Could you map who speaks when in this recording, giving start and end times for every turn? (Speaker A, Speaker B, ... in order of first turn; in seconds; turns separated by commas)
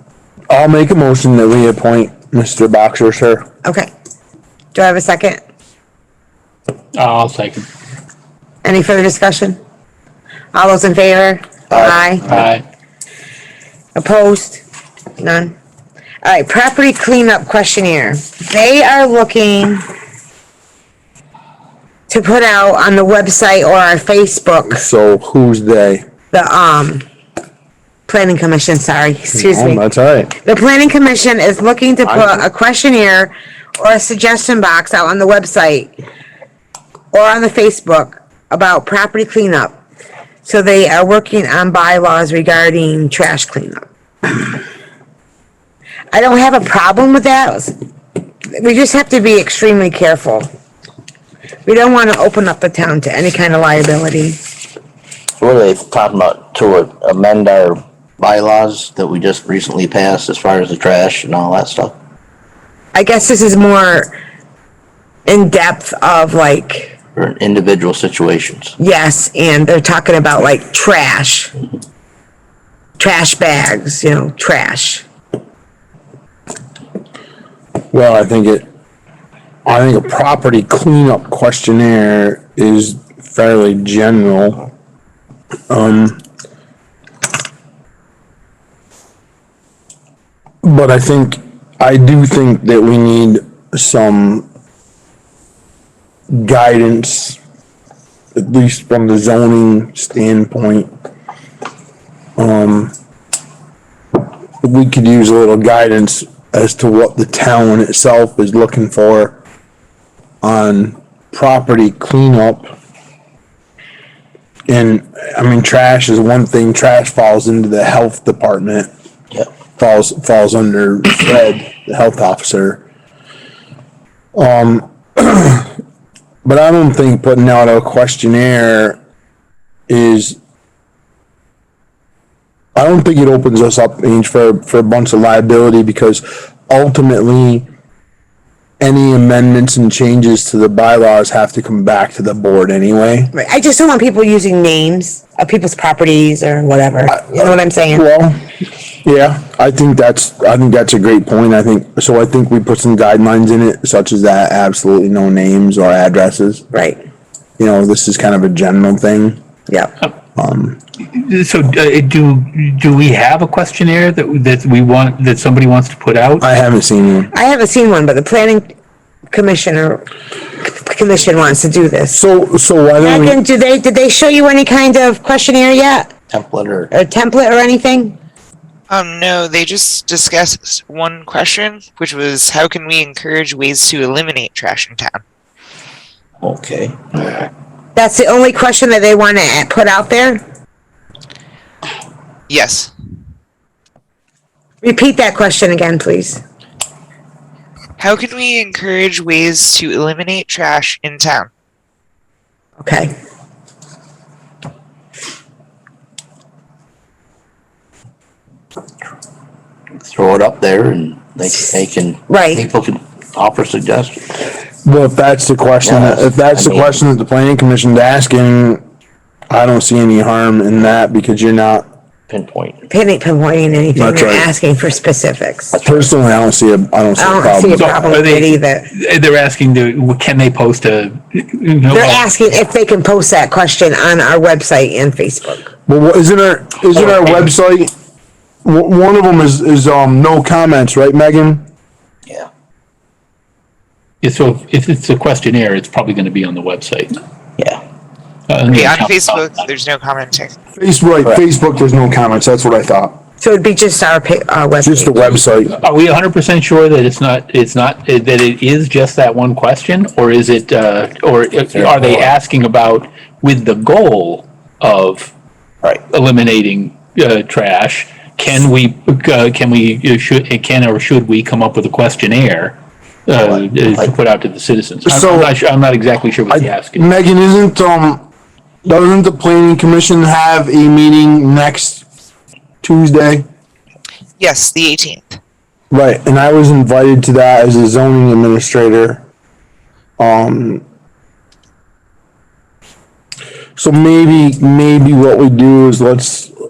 Speaker A: 0.5-3.5, Speaker B: 3.6-3.9, Speaker B: 4.7-5.4, Speaker C: 6.9-7.7, Speaker B: 8.6-9.6, Speaker B: 10.5-12.2, Speaker D: 11.7-12.5, Speaker C: 12.2-12.6, Speaker B: 13.9-14.6, Speaker B: 15.2-15.5, Speaker B: 16.2-19.9, Speaker B: 22.1-24.9, Speaker A: 24.7-26.0, Speaker B: 26.3-27.0, Speaker B: 28.1-29.8, Speaker A: 29.3-30.3, Speaker B: 30.3-35.9, Speaker B: 37.1-39.8, Speaker B: 40.4-43.8, Speaker B: 46.1-47.7, Speaker B: 48.5-50.5, Speaker B: 51.6-54.4, Speaker D: 55.4-61.9, Speaker B: 62.9-64.1, Speaker B: 65.3-66.9, Speaker D: 67.2-68.7, Speaker B: 68.8-71.5, Speaker B: 73.0-75.0, Speaker A: 77.9-78.7, Speaker A: 79.6-84.6, Speaker A: 85.7-86.2, Speaker A: 90.6-94.5, Speaker A: 96.3-97.4, Speaker A: 98.3-100.9, Speaker A: 102.4-102.9, Speaker A: 104.6-109.3, Speaker A: 110.4-112.7, Speaker A: 114.7-118.9, Speaker A: 119.8-122.8, Speaker A: 124.3-125.7, Speaker A: 126.4-129.0, Speaker A: 129.9-130.4, Speaker A: 132.7-137.6, Speaker A: 138.8-143.3, Speaker B: 143.3-148.0, Speaker A: 147.1-148.4, Speaker A: 149.0-156.6, Speaker B: 156.7-157.0, Speaker A: 157.6-159.4, Speaker A: 160.3-160.8, Speaker C: 161.0-166.4, Speaker A: 166.4-167.3, Speaker B: 167.3-168.7, Speaker B: 169.3-170.0, Speaker B: 170.6-172.2, Speaker A: 172.1-173.4, Speaker B: 173.0-176.1, Speaker D: 176.3-176.9, Speaker B: 176.9-178.2, Speaker E: 178.9-185.2, Speaker D: 186.4-187.5, Speaker B: 187.9-190.4, Speaker E: 192.5-192.9, Speaker B: 194.8-196.4, Speaker E: 198.0-201.5, Speaker B: 202.8-203.1, Speaker D: 210.0-214.3, Speaker B: 212.3-212.6, Speaker A: 214.8-218.8, Speaker D: 215.8-217.0, Speaker A: 219.5-221.9, Speaker D: 222.3-222.8, Speaker B: 222.9-225.8, Speaker A: 223.9-224.5, Speaker A: 225.8-228.0, Speaker B: 227.2-228.9, Speaker C: 227.8-232.3, Speaker B: 231.9-235.7, Speaker A: 235.9-237.9, Speaker A: 238.6-241.6, Speaker C: 244.2-247.2, Speaker C: 248.5-249.7, Speaker E: 248.7-250.5, Speaker A: 250.8-253.2, Speaker B: 253.4-255.4, Speaker A: 254.8-255.8, Speaker C: 255.8-265.3, Speaker C: 265.9-277.1, Speaker D: 273.5-274.1, Speaker A: 275.0-275.5, Speaker A: 276.5-278.2, Speaker A: 278.8-282.0, Speaker A: 282.8-283.4, Speaker E: 284.4-285.4, Speaker A: 285.9-289.2, Speaker A: 290.2-290.8, Speaker A: 293.8-296.5